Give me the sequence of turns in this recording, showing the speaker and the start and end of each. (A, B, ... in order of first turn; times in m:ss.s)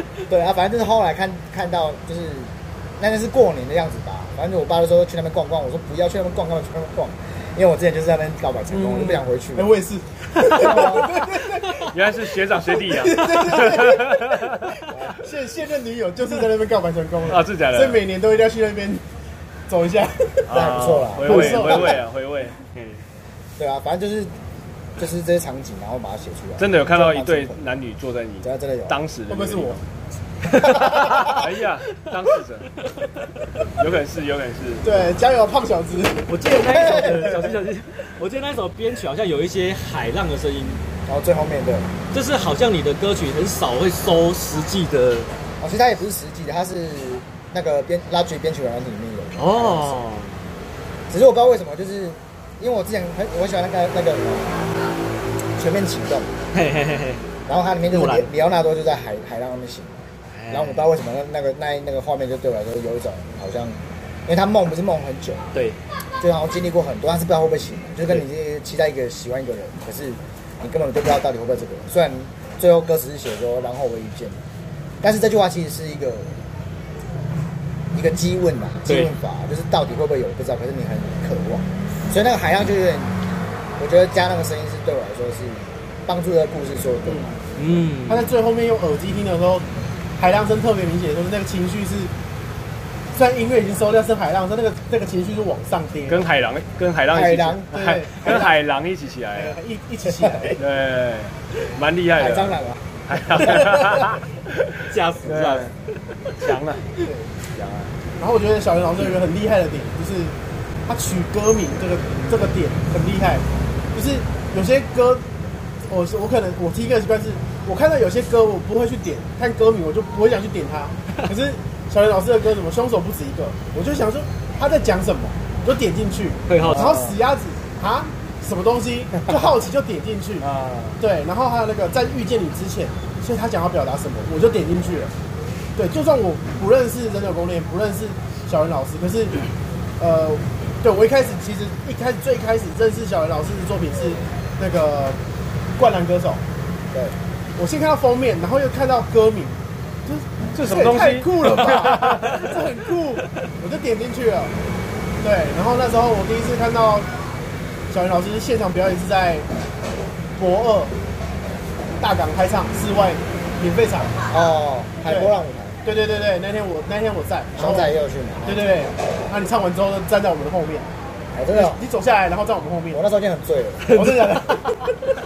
0:00.3-0:09.7 A
0:08.7-0:12.0 B
0:10.5-0:11.2 A
0:11.8-0:14.7 C
0:12.6-0:19.0 B
0:14.9-0:15.2 A
0:17.3-0:18.0 C
0:19.7-0:20.5 B
0:20.5-0:22.6 C
0:20.5-0:22.0 A
0:21.2-0:22.0 B
0:22.8-0:23.0 D
0:23.6-0:24.3 A
0:25.0-0:27.6 A
0:26.6-0:29.8 C
0:28.4-0:29.0 A
0:29.3-0:29.8 B
0:30.6-0:32.7 C
0:30.9-0:31.3 A
0:33.8-0:35.0 C
0:34.8-0:36.3 B
0:36.3-0:40.8 D
0:36.7-0:37.4 A
0:41.1-0:41.9 A
0:42.1-0:45.3 D
0:45.6-0:50.0 A
0:49.4-0:50.4 D
0:51.1-0:54.6 A
0:55.6-0:56.3 A
0:56.5-0:57.2 D
0:57.5-1:05.5 A
0:57.9-0:58.3 D
1:00.3-1:00.9 D
1:06.2-1:14.4 A
1:15.0-1:16.4 A
1:17.9-1:23.2 A
1:18.9-1:19.1 D
1:23.8-1:27.4 A
1:27.1-1:27.4 B
1:27.6-1:28.3 D
1:28.1-1:29.7 B
1:30.2-1:32.1 B
1:33.1-1:36.2 B
1:36.1-1:39.6 C
1:37.1-1:37.7 A
1:37.7-1:38.6 B
1:39.4-1:40.6 B
1:40.1-1:40.5 A
1:40.6-1:44.7 C
1:42.2-1:42.9 A
1:44.9-1:45.8 D
1:45.2-1:45.7 C
1:46.4-1:47.0 C
1:47.0-1:47.3 B
1:47.5-1:47.9 C
1:48.2-1:50.4 B
1:50.9-1:55.3 B
1:55.9-2:10.5 B
2:06.5-2:07.0 D
2:06.7-2:07.2 C
2:10.4-2:11.0 C
2:11.0-2:15.1 B
2:15.8-2:19.4 B
2:20.0-2:25.2 B
2:25.8-2:26.4 B
2:27.6-2:34.6 B
2:30.5-2:32.5 C
2:35.2-2:37.1 B
2:37.9-2:39.5 B
2:40.4-2:41.0 B
2:42.0-2:44.2 B
2:44.3-2:45.8 A
2:45.1-2:45.3 B
2:45.8-2:50.9 B
2:47.6-2:48.7 A
2:51.3-2:51.8 A
2:51.5-2:53.0 B
2:52.9-2:54.3 A
2:53.8-2:55.1 B